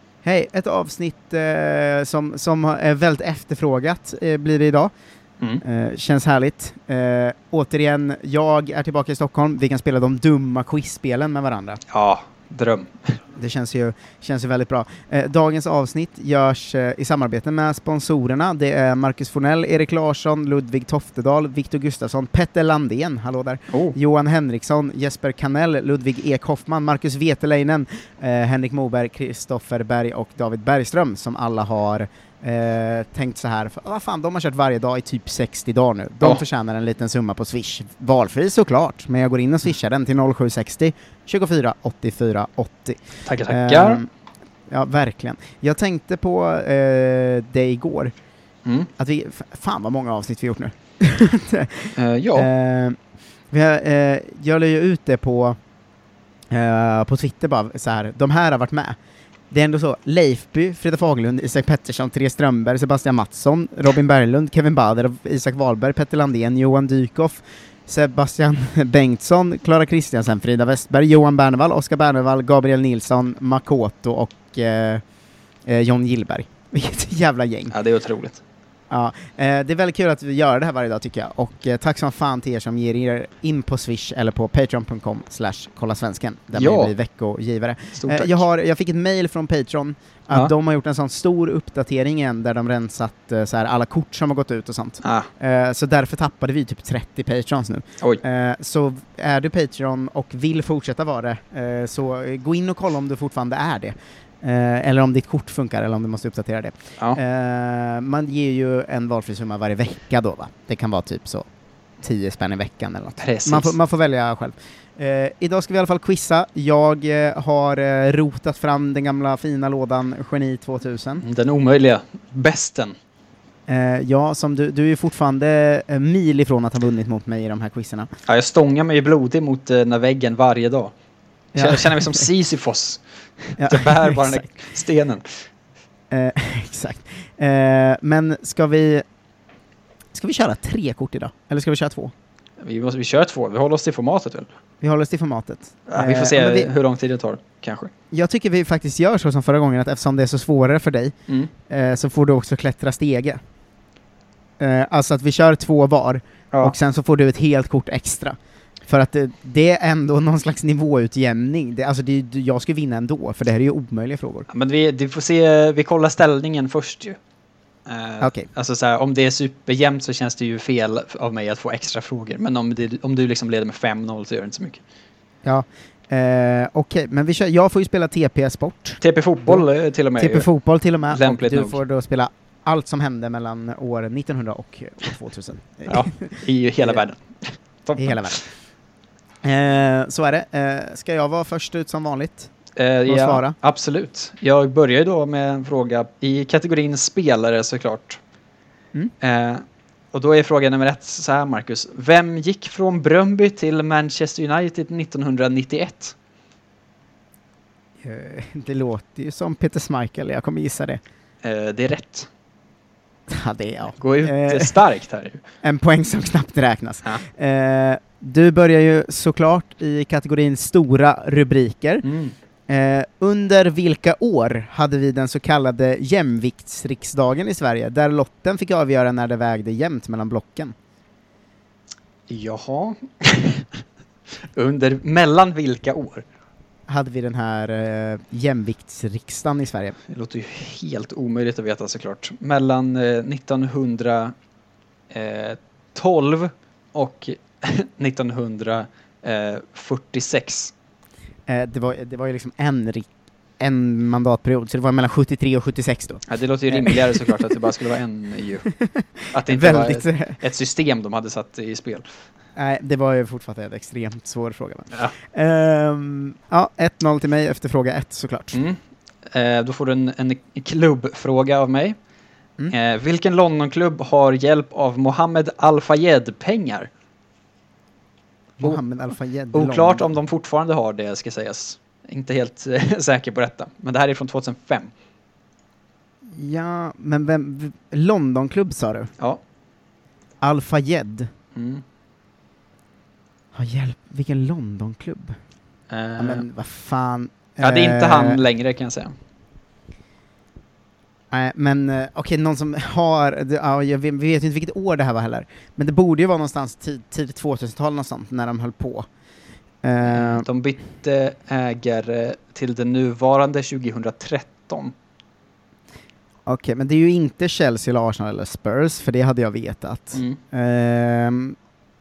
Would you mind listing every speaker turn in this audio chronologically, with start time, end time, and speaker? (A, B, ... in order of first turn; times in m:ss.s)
0:00.2-0:04.9 A
0:05.6-0:11.8 A
0:11.9-0:13.2 B
0:13.4-0:44.1 A
0:23.7-0:24.0 B
0:43.2-0:44.0 B
0:44.7-0:48.1 A
0:48.6-0:48.9 B
0:49.0-0:53.0 A
0:52.0-0:52.5 B
0:53.5-0:55.6 A
0:56.5-0:59.0 A
0:59.5-1:15.0 A
1:15.6-1:17.7 A
1:17.7-1:18.4 B
1:18.9-1:51.4 A
1:26.5-1:26.9 B
1:27.9-1:28.4 B
1:35.0-1:35.3 B
1:52.0-2:01.2 A
1:53.2-1:53.7 B
2:01.2-2:02.9 B
2:03.7-2:08.1 A
2:08.3-2:10.9 B
2:11.5-2:12.3 A
2:11.6-2:15.2 B
2:13.6-2:14.4 A
2:16.1-2:19.0 A
2:20.1-2:22.1 A
2:22.6-2:24.5 B
2:24.8-2:26.7 A
2:25.9-2:27.9 B
2:28.1-2:31.1 A
2:31.7-2:33.4 A
2:34.6-2:44.5 A
2:44.5-2:47.2 B
2:47.8-2:54.8 B
2:48.2-2:48.5 A
2:55.4-2:59.6 A
2:59.0-3:00.5 B
3:00.2-3:07.0 A
3:01.1-3:01.8 B
3:05.9-3:08.4 B
3:08.0-3:08.4 A
3:09.4-3:12.5 A
3:12.8-3:18.2 B
3:13.1-3:13.5 A
3:19.2-3:26.1 B
3:28.0-3:31.0 A
3:31.4-3:32.3 B
3:33.3-3:34.8 A
3:34.0-3:35.4 B
3:35.6-3:42.0 A
3:42.0-3:42.3 B
3:42.7-3:50.7 A
3:52.3-3:53.8 B
3:54.5-3:56.2 B
3:56.9-4:00.0 A
4:00.1-4:04.3 B
4:05.1-4:10.7 B
4:11.5-4:13.1 A
4:13.6-4:17.6 A
4:16.3-4:18.7 B
4:18.8-4:20.4 A
4:19.3-4:22.0 B
4:22.6-4:28.6 A
4:28.5-4:32.0 B
4:32.7-4:36.9 B
4:38.6-4:40.0 A
4:39.5-4:44.9 B
4:46.3-4:49.1 A
4:50.4-4:51.3 A
4:51.5-4:51.8 B
4:53.5-4:55.4 A
4:55.9-4:56.4 B
4:56.2-4:58.4 A
4:57.6-4:59.1 B
5:01.3-5:09.1 A
5:09.8-5:10.4 A
5:10.0-5:14.9 B
5:16.5-5:21.6 A
5:20.1-5:20.4 B